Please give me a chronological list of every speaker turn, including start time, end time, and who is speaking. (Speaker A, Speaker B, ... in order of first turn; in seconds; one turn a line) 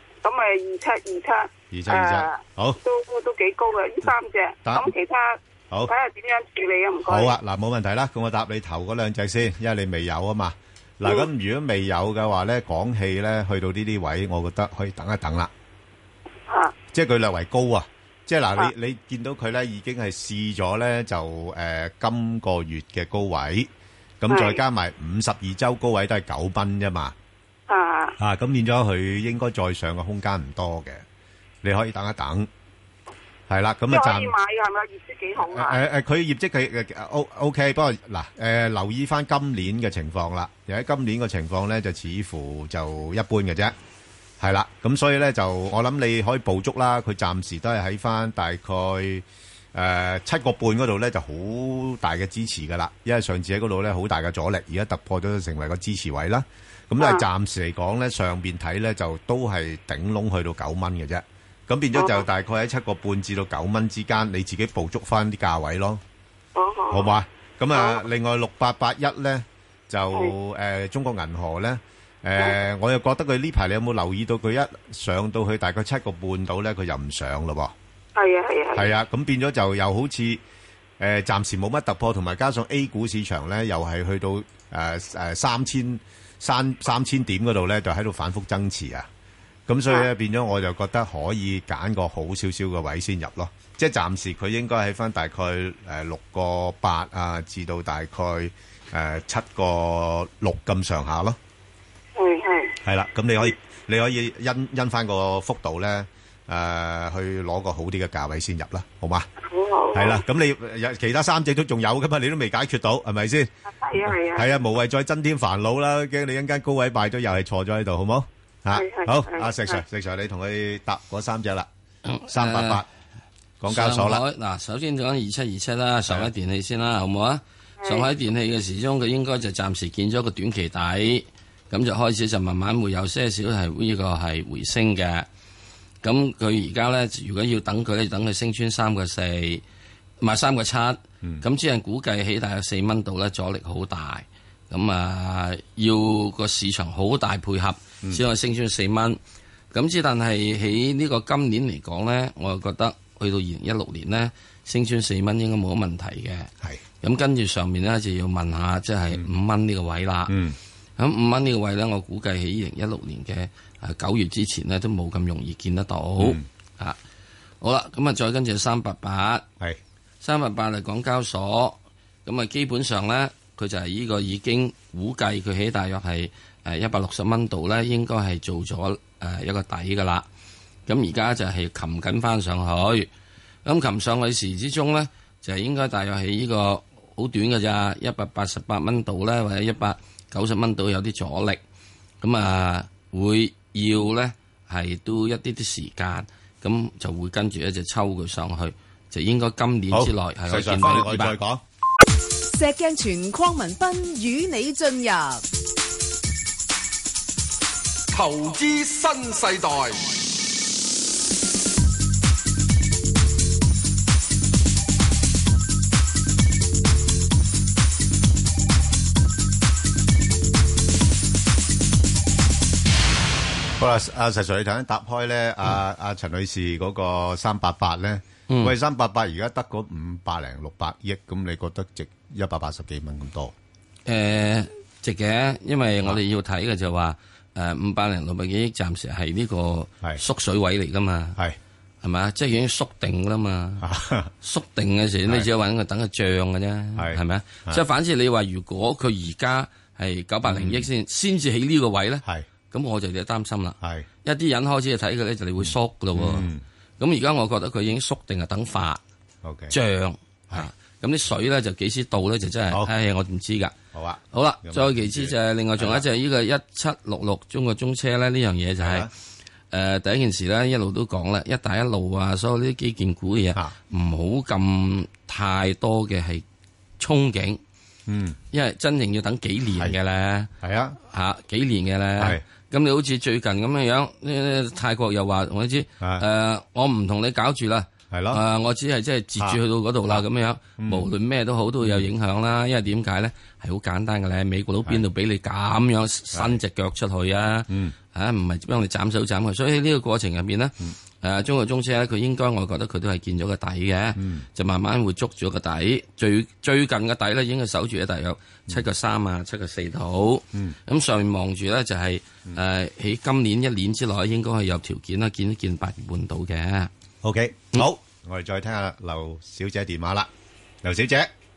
Speaker A: 0.2-7.4
Speaker B: 1.7-2.8
Speaker B: 4.6-4.9
Speaker B: 7.1-15.5
Speaker A: 16.5-16.7
Speaker B: 16.9-23.7
Speaker B: 24.2-27.1
Speaker A: 24.3-24.6
Speaker A: 27.7-28.1
Speaker B: 28.2-31.0
Speaker B: 31.6-32.5
Speaker B: 33.5-34.3
Speaker A: 33.9-35.8
Speaker B: 35.4-43.7
Speaker B: 44.4-66.0
Speaker A: 57.0-57.2
Speaker A: 62.0-62.2
Speaker A: 66.5-67.2
Speaker B: 66.9-77.7
Speaker A: 67.7-68.0
Speaker A: 78.2-78.9
Speaker B: 78.7-80.4
Speaker B: 81.0-89.1
Speaker B: 89.7-101.4
Speaker A: 102.2-102.7
Speaker B: 102.8-109.3
Speaker A: 109.4-110.2
Speaker B: 109.9-121.7
Speaker A: 113.7-114.5
Speaker A: 118.7-119.8
Speaker C: 122.0-122.8
Speaker B: 122.3-122.9
Speaker B: 123.6-124.2
Speaker C: 123.7-135.3
Speaker A: 127.8-128.1
Speaker C: 136.0-139.6
Speaker C: 140.2-149.2
Speaker C: 149.7-156.5
Speaker C: 157.0-160.3
Speaker B: 160.3-160.6
Speaker C: 161.0-167.0
Speaker B: 166.2-166.4
Speaker C: 167.6-169.4
Speaker C: 170.2-180.2
Speaker C: 180.9-183.1
Speaker C: 183.6-191.6
Speaker C: 192.2-201.3
Speaker B: 199.9-201.6
Speaker D: 202.5-205.4
Speaker E: 208.1-210.1
Speaker B: 223.8-233.5
Speaker C: 228.5-228.7
Speaker C: 234.1-241.4
Speaker C: 242.0-243.9
Speaker B: 243.8-244.3
Speaker C: 244.4-259.0
Speaker B: 246.9-247.8
Speaker B: 250.4-250.9
Speaker B: 253.8-254.1
Speaker B: 255.6-256.6
Speaker B: 259.4-259.8
Speaker C: 259.7-263.7
Speaker B: 263.9-266.0
Speaker C: 264.3-269.1
Speaker B: 268.8-269.1
Speaker C: 269.7-276.4
Speaker C: 277.0-277.6
Speaker B: 278.1-278.4
Speaker C: 278.5-280.5
Speaker B: 280.6-281.0
Speaker C: 281.1-316.9
Speaker B: 288.1-288.4
Speaker B: 289.4-290.2
Speaker B: 290.8-291.1
Speaker B: 291.8-292.1
Speaker B: 296.3-296.6
Speaker B: 297.7-297.9
Speaker B: 304.2-304.5
Speaker B: 317.2-320.3
Speaker B: 320.8-321.3